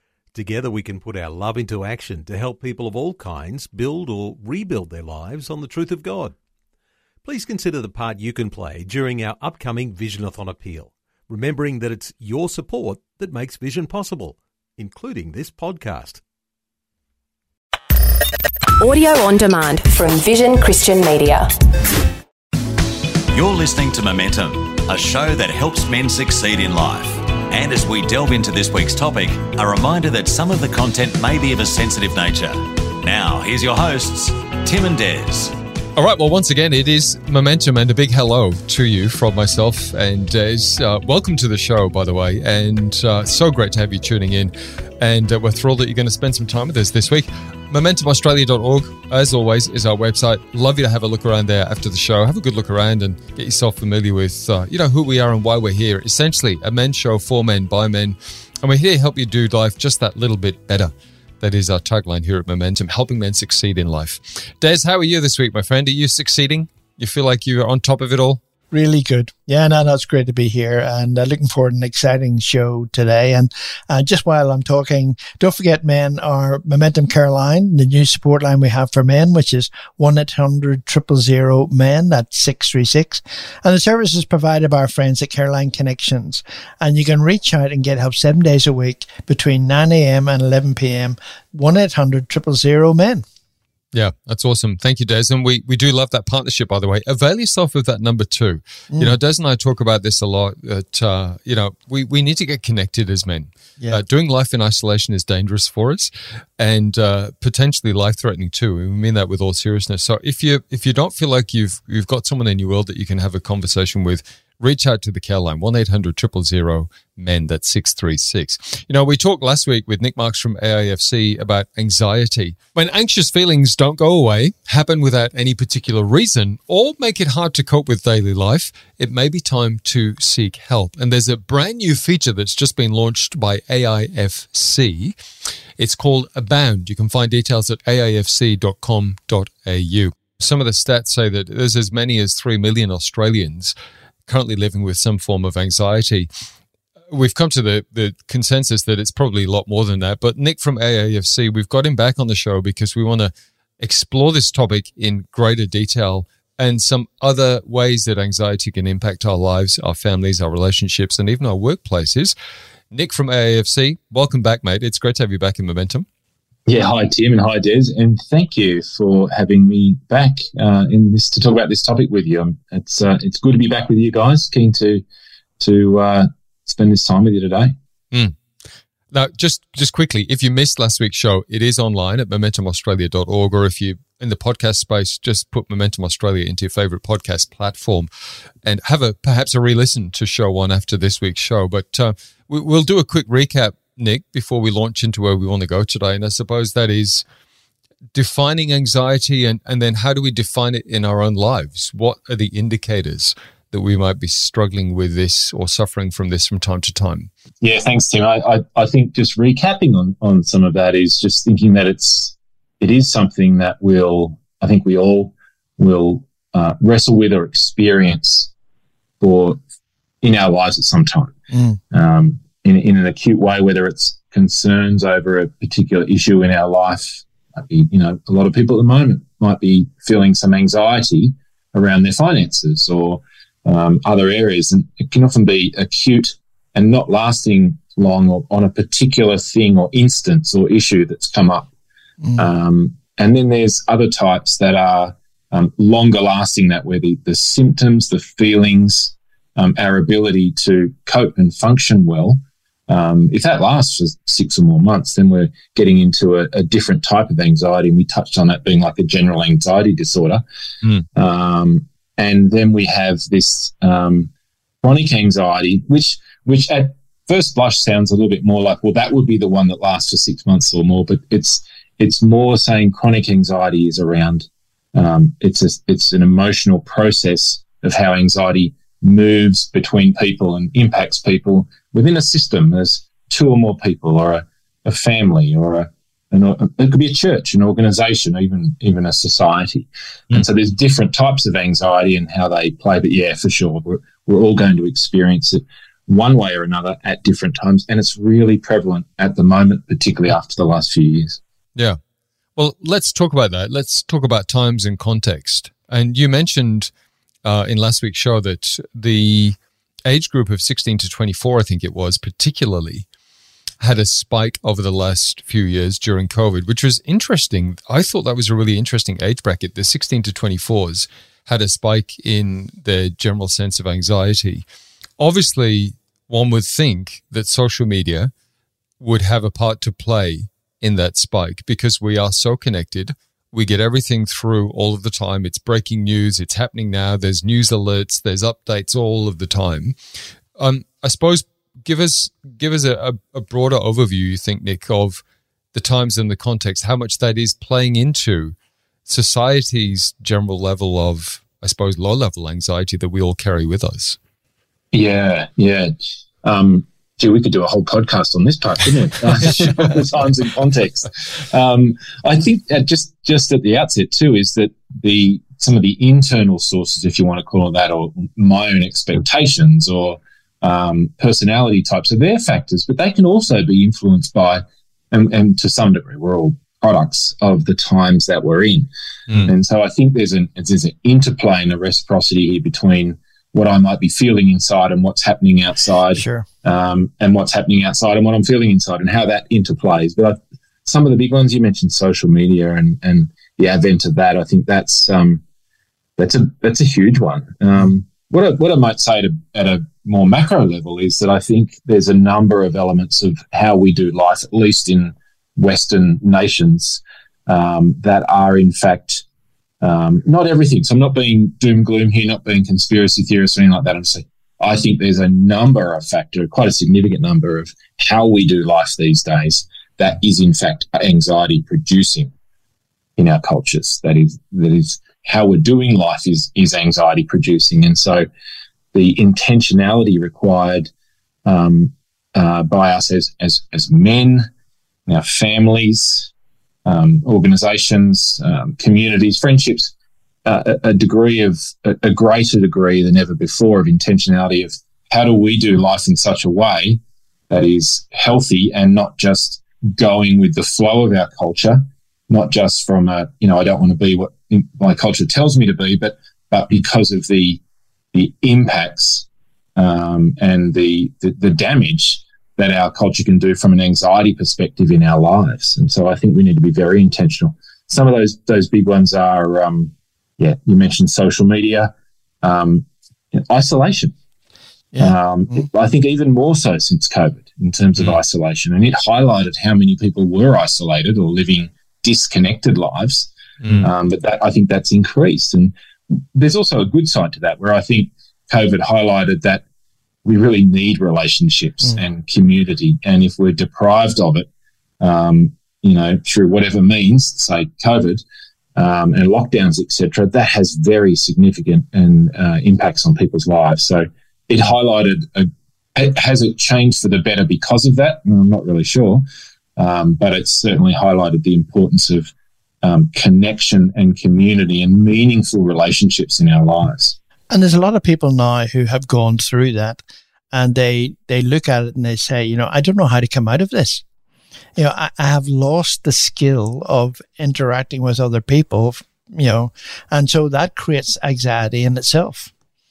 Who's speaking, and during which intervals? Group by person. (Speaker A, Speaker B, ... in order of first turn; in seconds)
Speaker A: 0.3-6.3, 7.2-16.2
Speaker B: 18.8-21.5
Speaker C: 23.3-35.5
Speaker D: 36.0-68.4, 93.9-135.2, 135.8-143.7, 144.3-146.3, 147.1-162.3, 162.9-166.1, 179.1-188.1, 188.6-197.2, 198.1-207.3, 302.6-306.9, 307.4-313.1, 313.8-324.6, 325.2-328.3, 329.0-339.9, 340.6-345.2, 345.7-348.5, 349.1-354.2, 483.6-483.9
Speaker E: 68.7-93.2, 221.5-221.8, 386.1-386.4, 474.9-475.6, 517.5-524.0, 524.8-532.5
Speaker F: 166.7-175.0, 175.6-177.8, 207.6-218.5, 219.2-219.6, 220.2-221.3, 221.9-241.7, 242.3-260.4, 261.1-264.3, 264.8-301.4, 354.9-395.4, 396.2-409.2, 409.8-422.3, 423.2-428.3, 428.9-430.9, 431.4-434.5, 435.1-436.3, 436.9-439.9, 440.4-457.6, 458.1-474.1, 475.0-489.6, 490.2-494.5, 495.0-498.2, 498.8-509.2, 509.8-517.1